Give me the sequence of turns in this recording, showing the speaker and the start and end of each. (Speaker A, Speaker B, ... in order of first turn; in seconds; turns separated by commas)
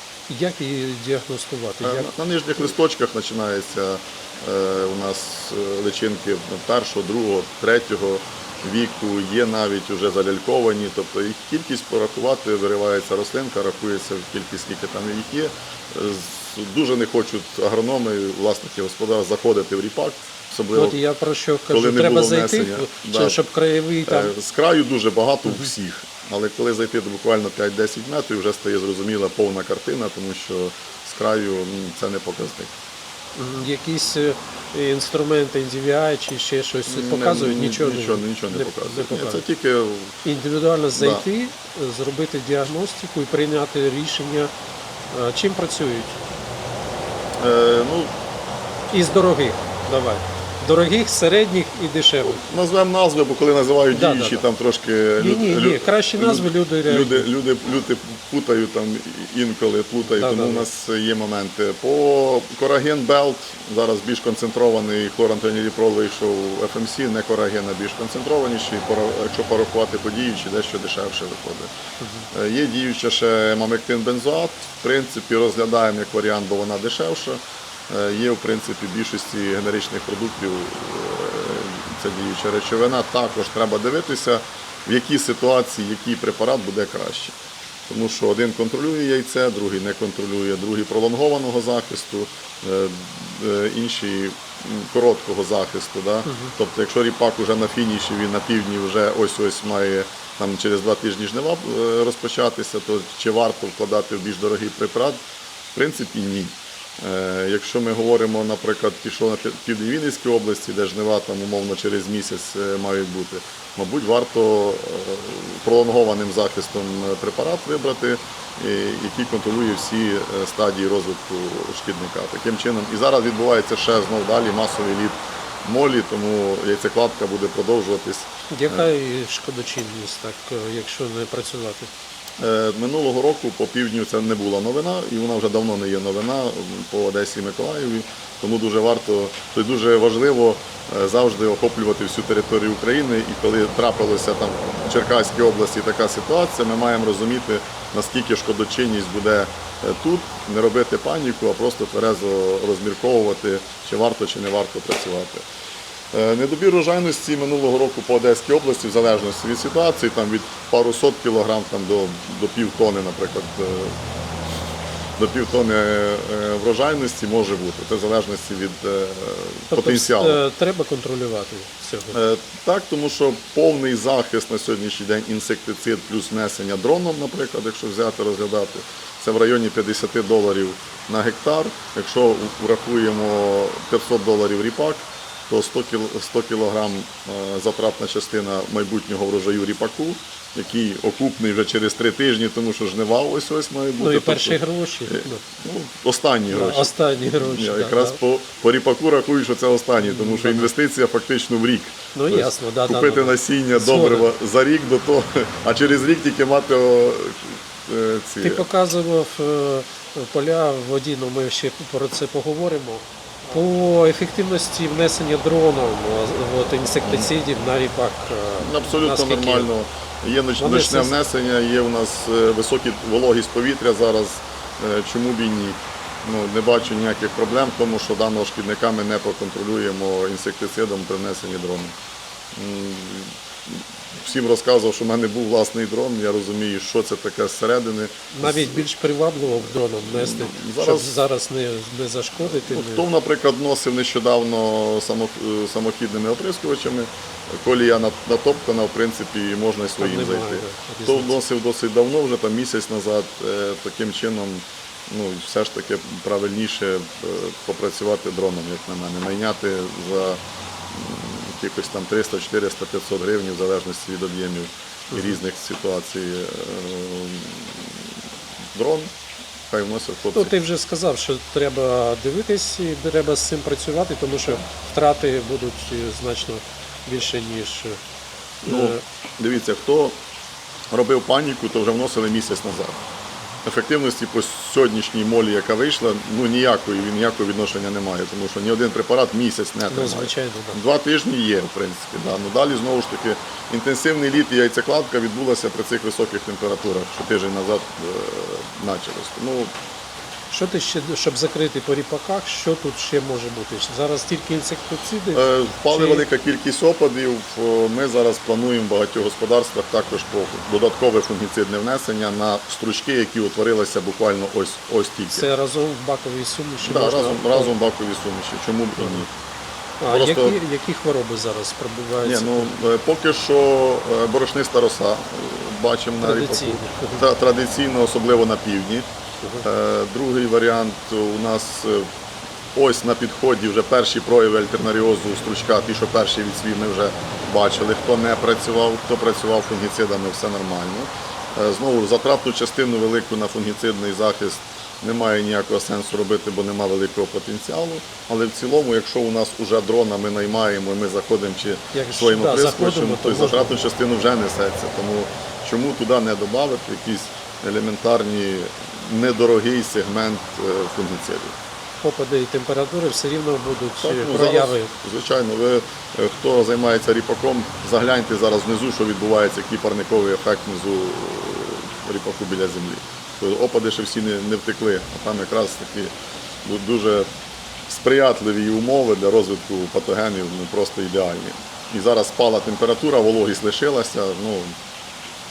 Speaker A: 0.3-2.1, Speaker B: 1.8-21.0, Speaker A: 20.7-24.3, Speaker B: 21.7-23.4, Speaker B: 24.1-32.7, Speaker A: 33.4-39.4, Speaker B: 36.9-40.2, Speaker A: 40.2-44.5, Speaker B: 40.9-41.2, Speaker A: 45.1-46.2, Speaker B: 47.4-48.1, Speaker A: 48.9-52.4, Speaker B: 52.3-71.7, Speaker A: 53.9-54.5, Speaker A: 55.2-57.3, Speaker A: 60.1-60.6, Speaker A: 72.0-72.3, Speaker B: 72.3-87.3, Speaker B: 87.9-105.2, Speaker A: 96.2-96.5, Speaker B: 105.7-128.8, Speaker A: 128.5-131.9, Speaker B: 132.4-155.4, Speaker B: 156.1-163.9, Speaker B: 165.2-170.4, Speaker A: 169.7-172.2, Speaker B: 172.1-208.7, Speaker A: 194.0-195.4, Speaker A: 196.5-198.2, Speaker A: 200.0-200.7, Speaker A: 202.1-204.3, Speaker A: 208.4-219.7, Speaker B: 218.6-231.9, Speaker A: 220.6-221.2, Speaker B: 232.5-238.8, Speaker A: 238.3-243.1, Speaker B: 240.1-241.1, Speaker B: 242.4-268.0, Speaker A: 250.0-251.3, Speaker A: 265.1-265.4, Speaker B: 268.7-269.1, Speaker B: 269.7-270.5, Speaker A: 270.3-278.0, Speaker B: 278.6-280.2, Speaker A: 278.6-279.0, Speaker B: 280.9-283.0, Speaker B: 283.6-299.7, Speaker A: 289.9-290.8, Speaker A: 300.5-306.2, Speaker B: 305.3-315.5, Speaker A: 315.3-317.7, Speaker B: 316.8-319.3, Speaker A: 319.0-319.2, Speaker A: 320.0-322.7, Speaker B: 320.1-320.6, Speaker B: 322.2-329.1, Speaker A: 326.2-327.2, Speaker B: 329.6-332.1, Speaker B: 332.7-361.5, Speaker A: 351.9-353.8, Speaker A: 362.0-364.9, Speaker B: 364.0-376.1, Speaker B: 376.6-377.3, Speaker B: 377.9-384.7